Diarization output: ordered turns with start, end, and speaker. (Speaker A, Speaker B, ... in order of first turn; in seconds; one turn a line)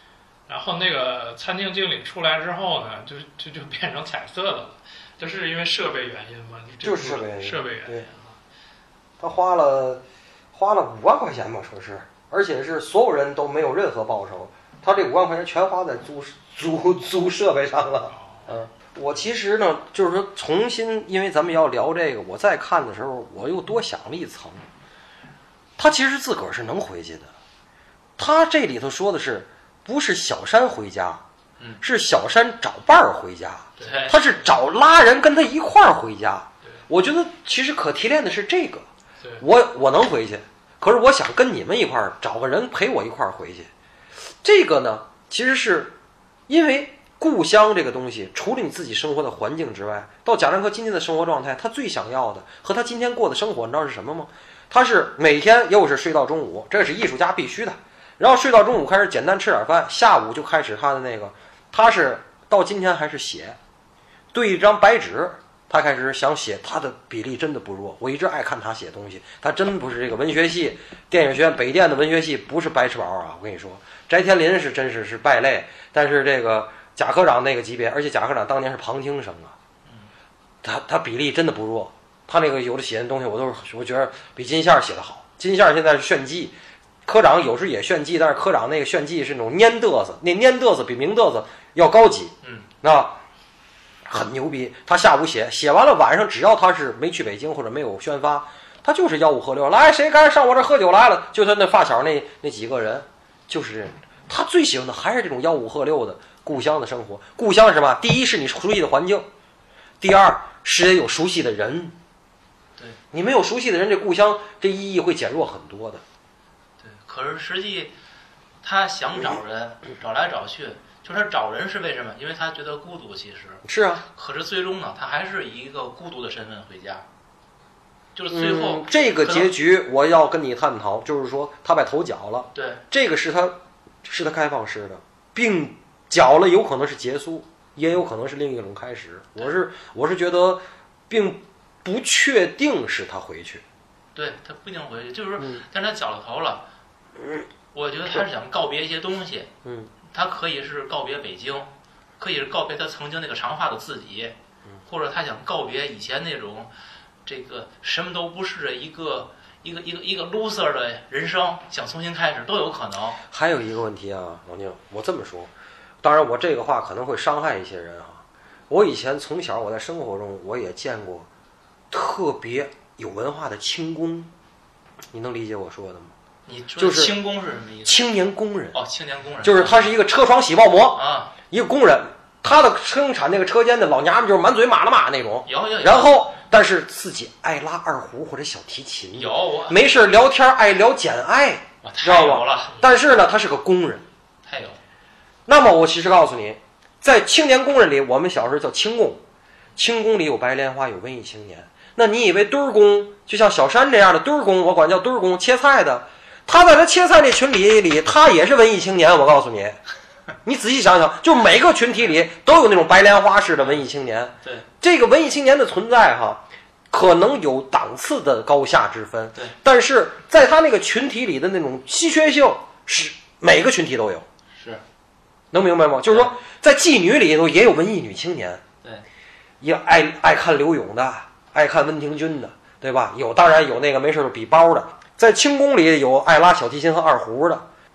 Speaker A: 0.5-8.4
Speaker B: 6.8-8.1
Speaker B: 9.2-24.6
Speaker B: 25.8-27.3
Speaker B: 28.2-31.2
Speaker B: 31.8-38.9
Speaker A: 33.8-34.0
Speaker C: 33.8-34.2
Speaker B: 39.4-43.7
Speaker B: 44.4-46.0
Speaker B: 46.5-63.6
Speaker B: 64.3-79.5
Speaker B: 80.6-86.5
Speaker B: 87.0-93.2
Speaker C: 92.4-92.7
Speaker B: 94.1-109.3
Speaker B: 110.0-112.0
Speaker B: 113.1-116.0
Speaker C: 116.8-117.9
Speaker C: 118.6-123.6
Speaker B: 123.6-124.0
Speaker C: 124.1-127.0
Speaker C: 128.1-129.5
Speaker B: 128.3-143.6
Speaker C: 132.5-132.8
Speaker C: 144.1-146.6
Speaker B: 145.4-145.6
Speaker C: 147.7-149.5
Speaker B: 149.6-149.9
Speaker C: 150.1-156.7
Speaker C: 157.2-163.2
Speaker B: 163.3-165.5
Speaker B: 166.0-171.3
Speaker B: 171.9-174.3
Speaker B: 175.1-176.1
Speaker C: 176.5-178.1
Speaker B: 176.8-177.2
Speaker B: 177.8-178.8
Speaker C: 178.7-179.9
Speaker B: 179.4-194.0
Speaker C: 180.9-181.3
Speaker C: 185.4-186.2
Speaker C: 189.1-189.8
Speaker C: 191.8-192.8
Speaker C: 194.4-194.8
Speaker B: 195.5-199.2
Speaker B: 199.8-209.8
Speaker B: 210.4-224.2
Speaker C: 224.6-224.8
Speaker B: 225.5-228.6
Speaker B: 229.6-237.7